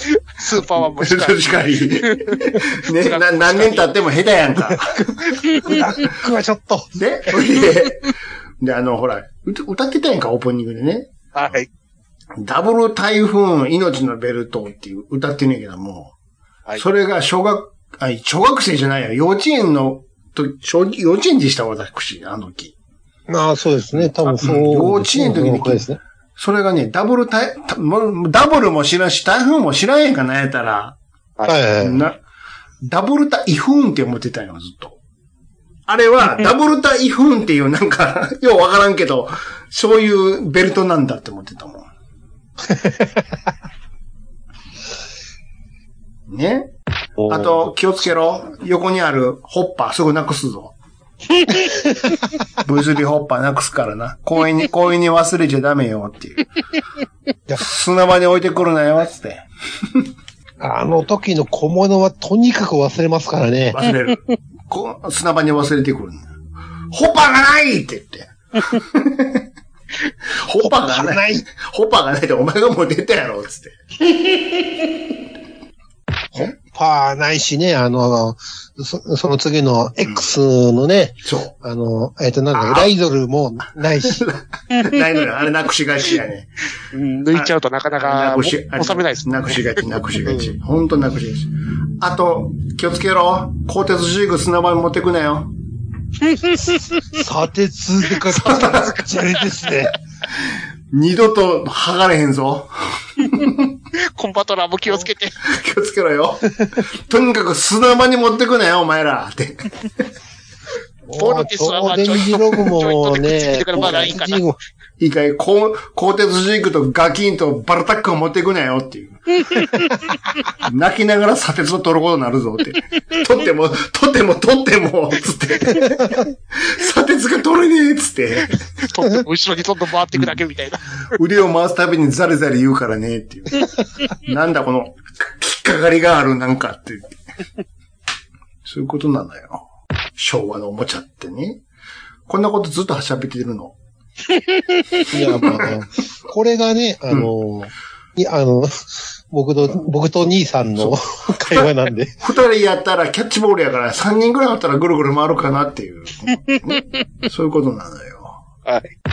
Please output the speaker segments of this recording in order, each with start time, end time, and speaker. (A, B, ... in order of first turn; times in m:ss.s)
0:00.4-0:01.4 A
0:00.7-0:05.8 B
0:02.1-0:03.9 A
0:05.6-0:07.0 C
0:07.0-0:11.6 B
0:11.4-0:11.7 A
0:12.4-0:16.1 B
0:16.8-0:22.7 B
0:23.3-0:26.0 C
0:23.9-0:25.8 B
0:26.4-0:31.0 B
0:31.5-0:32.0 C
0:31.8-0:32.2 B
0:32.9-0:35.0 B
0:35.9-0:41.9 B
0:42.7-0:43.3 C
0:46.3-0:46.7 B
0:47.2-0:47.5 C
0:47.3-0:50.7 B
0:51.5-0:52.2 C
0:52.6-0:56.5 B
0:57.6-0:59.4 B
1:00.6-1:03.8 C
1:03.7-1:06.2 B
1:06.9-1:09.4 B
1:10.4-1:13.8 B
1:10.6-1:11.5 C
1:16.4-1:24.2 C
1:21.2-1:21.5 B
1:22.5-1:22.9 B
1:24.0-1:26.7 B
1:26.9-1:29.6 A
1:27.3-1:35.5 B
1:37.1-1:40.0 C
1:38.3-1:39.0 B
1:40.9-1:43.7 B
1:44.2-1:45.4 A
1:45.5-1:46.5 B
1:47.1-1:49.7 B
1:51.1-1:54.6 C
1:51.2-1:54.4 A
1:55.0-1:59.2 B
2:00.6-2:08.6 B
2:08.8-2:10.8 A
2:11.2-2:17.2 B
2:18.6-2:19.6 B
2:20.2-2:21.6 B
2:22.3-2:23.8 B
2:25.1-2:32.1 C
2:25.4-2:25.8 B
2:30.8-2:31.7 B
2:32.2-2:38.4 B